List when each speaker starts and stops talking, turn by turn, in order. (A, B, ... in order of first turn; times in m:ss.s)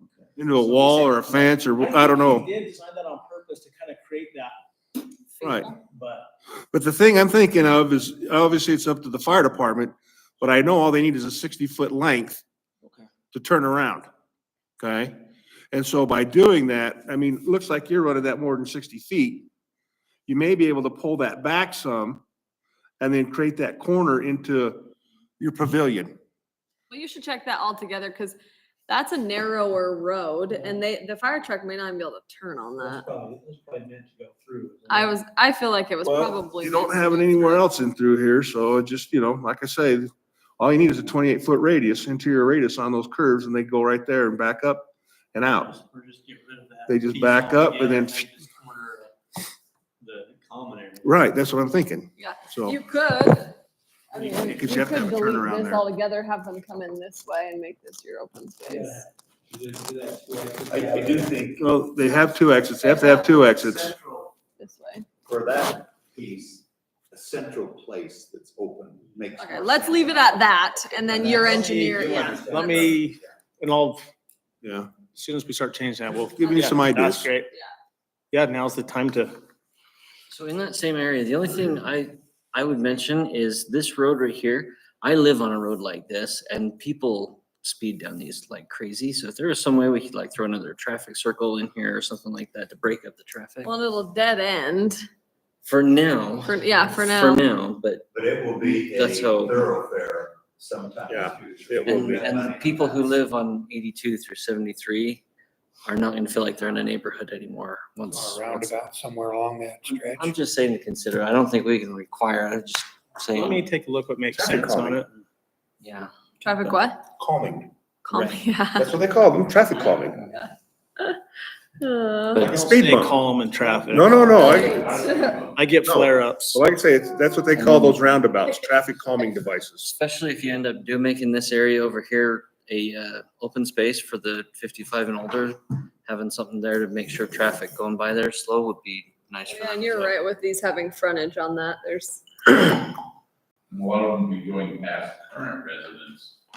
0:00.4-0:02.5 A
0:00.5-0:03.6 B
0:02.7-0:04.5 C
0:05.4-0:05.7 D
0:05.4-0:05.7 A
0:05.8-0:06.3 B
0:06.7-0:12.4 A
0:13.3-0:14.1 A
0:14.8-0:15.1 A
0:15.7-0:19.5 A
0:20.3-0:22.2 A
0:23.0-0:26.2 A
0:26.9-0:28.4 D
0:28.9-0:33.0 D
0:30.5-0:30.8 B
0:32.8-0:35.1 B
0:34.9-0:37.6 D
0:36.0-0:36.4 B
0:36.6-0:45.7 A
0:45.5-0:49.1 B
0:46.9-0:48.3 A
0:50.0-0:51.3 B
0:51.0-0:52.8 A
0:52.2-0:53.5 D
0:54.1-0:59.0 D
0:54.4-0:55.8 A
0:58.7-1:01.4 B
1:00.7-1:01.6 E
1:01.6-1:03.9 A
1:04.0-1:04.2 B
1:04.6-1:05.0 D
1:05.2-1:10.6 E
1:09.4-1:12.9 D
1:11.1-1:13.2 E
1:11.1-1:12.7 B
1:12.5-1:14.1 C
1:14.6-1:15.0 A
1:15.0-1:17.5 C
1:16.3-1:17.3 A
1:16.4-1:16.8 D
1:18.3-1:19.4 C
1:20.3-1:33.7 F
1:33.6-1:35.0 D
1:35.6-1:38.0 F
1:36.4-1:37.4 D
1:38.1-1:43.1 E
1:38.7-1:39.6 F
1:41.1-1:42.2 A
1:41.8-1:45.2 F
1:45.8-1:48.8 F
1:48.1-1:50.3 G
1:50.1-1:53.6 F
1:53.3-1:55.2 C
1:54.3-1:55.0 A
1:55.8-1:56.1 F
1:56.4-1:57.0 D
1:57.2-1:57.7 A
1:58.0-1:58.9 D
1:58.8-2:00.2 A
2:00.2-2:01.2 D
2:01.8-2:02.5 D
2:02.3-2:02.7 F
2:02.4-2:03.2 A
2:02.4-2:02.8 B
2:02.8-2:04.2 C
2:03.9-2:04.8 A
2:04.3-2:05.4 D
2:04.3-2:05.7 H
2:05.5-2:06.6 C
2:05.8-2:09.9 A
2:07.6-2:08.0 F
2:09.8-2:20.2 F
2:19.5-2:22.5 D
2:23.7-2:26.3 H